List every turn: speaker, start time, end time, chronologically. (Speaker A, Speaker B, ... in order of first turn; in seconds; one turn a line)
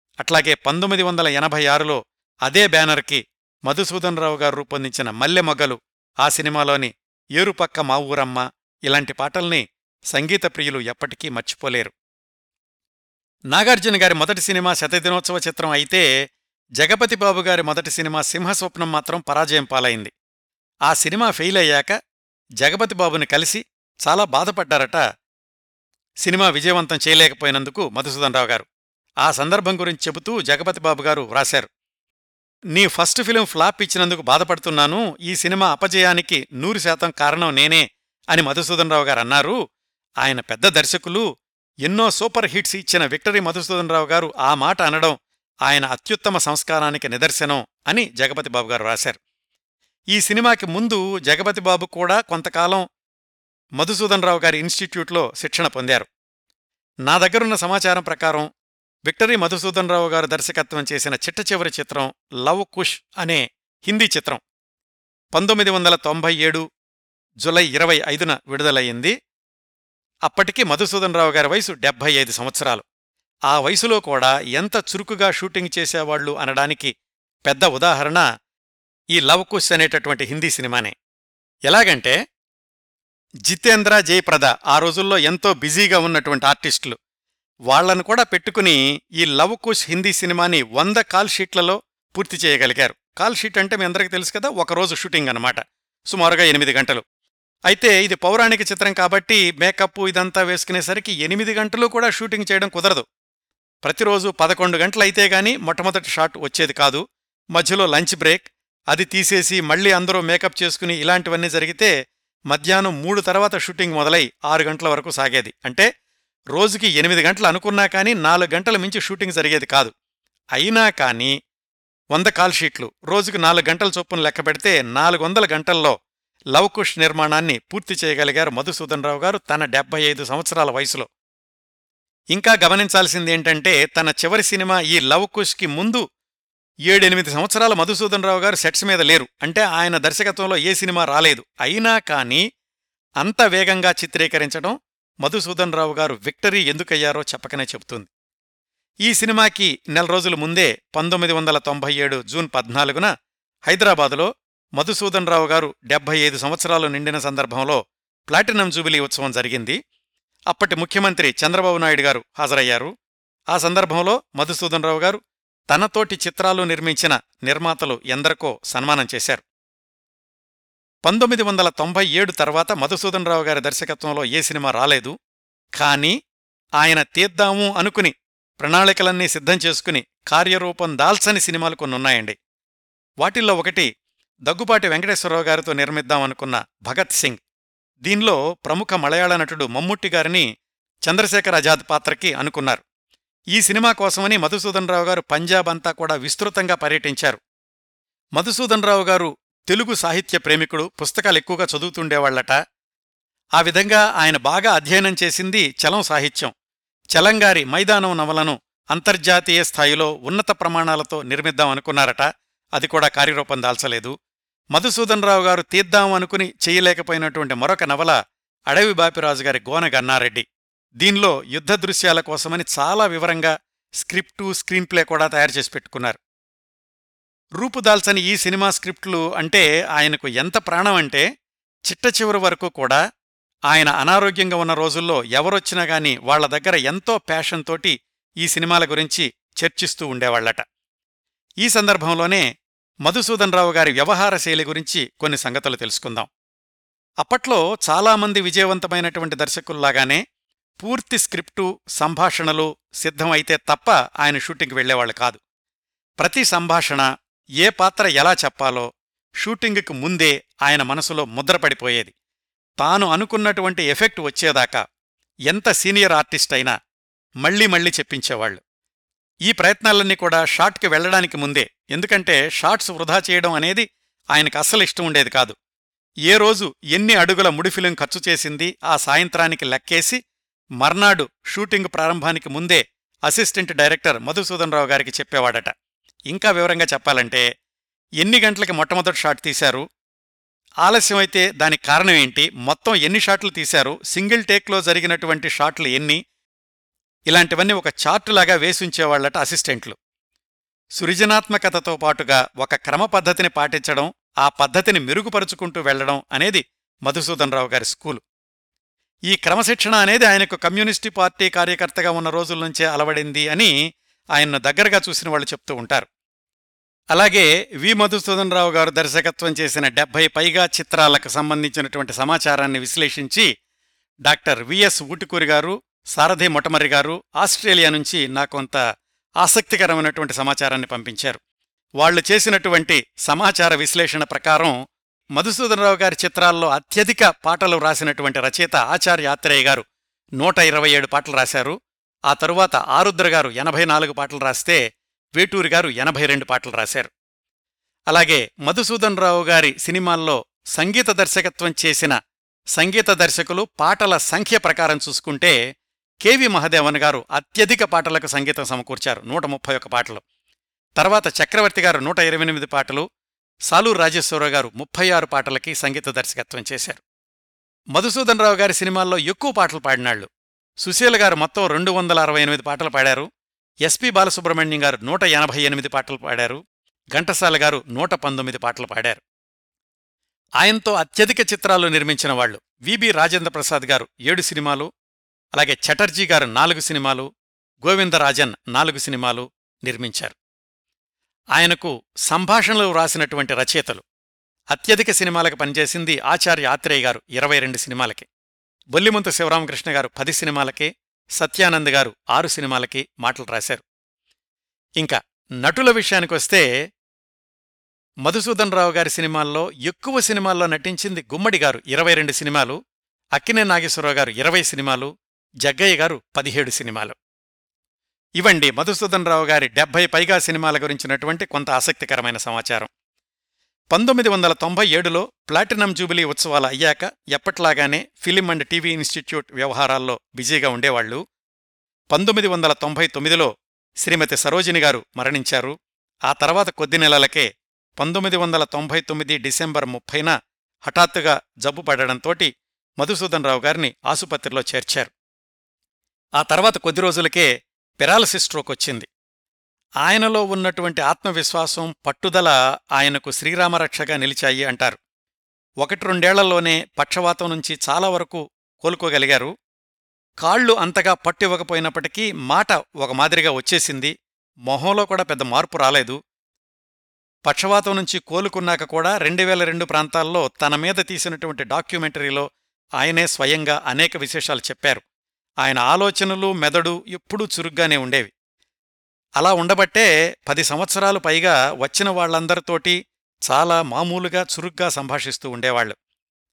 Speaker A: 0.2-11.9
Speaker A: 13.5-16.1
Speaker A: 16.8-20.1
Speaker A: 20.9-22.0
Speaker A: 22.6-25.0
Speaker A: 26.2-28.6
Speaker A: 29.2-31.7
Speaker A: 32.7-39.6
Speaker A: 40.2-41.2
Speaker A: 41.9-49.2
Speaker A: 50.1-52.8
Speaker A: 53.8-56.1
Speaker A: 57.1-58.5
Speaker A: 59.1-64.4
Speaker A: 65.3-66.6
Speaker A: 67.4-69.1
Speaker A: 70.3-72.8
Speaker A: 73.5-76.9
Speaker A: 77.5-78.2
Speaker A: 79.2-80.9
Speaker A: 81.7-82.2
Speaker A: 83.5-87.0
Speaker A: 87.7-97.0
Speaker A: 97.7-103.0
Speaker A: 103.8-107.0
Speaker A: 107.5-111.9
Speaker A: 112.5-115.9
Speaker A: 116.5-119.9
Speaker A: 120.5-121.3
Speaker A: 122.1-126.0
Speaker A: 126.5-131.1
Speaker A: 132.3-136.0
Speaker A: 136.9-142.4
Speaker A: 143.2-148.1
Speaker A: 149.1-153.1
Speaker A: 153.7-159.8
Speaker A: 160.5-162.9
Speaker A: 163.5-169.4
Speaker A: 171.0-175.1
Speaker A: 175.8-176.2
Speaker A: 176.8-182.3
Speaker A: 183.2-183.9
Speaker A: 184.5-187.4
Speaker A: 188.0-190.4
Speaker A: 191.1-192.8
Speaker A: 193.5-197.4
Speaker A: 198.4-202.6
Speaker A: 203.6-206.5
Speaker A: 207.1-214.1
Speaker A: 214.7-218.2
Speaker A: 218.7-220.4
Speaker A: 221.0-226.2
Speaker A: 227.6-231.2
Speaker A: 231.9-233.0
Speaker A: 233.7-240.6
Speaker A: 241.6-242.4
Speaker A: 243.0-246.3
Speaker A: 247.2-250.2
Speaker A: 250.8-255.4
Speaker A: 256.2-257.1
Speaker A: 257.6-258.9
Speaker A: 259.4-262.1
Speaker A: 262.8-264.8
Speaker A: 265.5-266.7
Speaker A: 267.4-268.6
Speaker A: 269.5-275.6
Speaker A: 276.3-280.2
Speaker A: 280.8-285.7
Speaker A: 286.3-287.4
Speaker A: 288.2-289.8
Speaker A: 290.8-296.2
Speaker A: 297.3-299.9
Speaker A: 301.0-308.2
Speaker A: 309.3-313.7
Speaker A: 314.3-316.1
Speaker A: 317.1-323.5
Speaker A: 324.2-328.8
Speaker A: 329.4-331.4
Speaker A: 332.0-334.7
Speaker A: 335.4-339.8
Speaker A: 340.4-341.8
Speaker A: 342.3-344.8
Speaker A: 345.4-347.1
Speaker A: 348.1-352.2
Speaker A: 352.8-355.6
Speaker A: 356.2-360.2
Speaker A: 361.0-363.1
Speaker A: 363.7-367.0
Speaker A: 367.9-370.3
Speaker A: 370.8-373.3
Speaker A: 373.8-376.6
Speaker A: 377.1-379.2
Speaker A: 380.6-384.9
Speaker A: 385.5-387.3
Speaker A: 387.8-390.3
Speaker A: 391.5-394.0
Speaker A: 394.7-398.3
Speaker A: 398.9-403.8
Speaker A: 405.0-406.6
Speaker A: 408.2-412.8
Speaker A: 413.3-415.1
Speaker A: 415.6-417.1
Speaker A: 418.4-422.9
Speaker A: 423.9-431.2
Speaker A: 432.1-433.5
Speaker A: 434.0-435.8
Speaker A: 436.3-440.3
Speaker A: 440.8-445.1
Speaker A: 446.4-447.5
Speaker A: 448.0-449.1
Speaker A: 450.0-455.0
Speaker A: 455.8-459.5
Speaker A: 460.4-464.1
Speaker A: 464.7-466.2
Speaker A: 467.4-472.5
Speaker A: 473.0-475.0
Speaker A: 475.6-478.3
Speaker A: 479.4-483.0
Speaker A: 483.5-485.9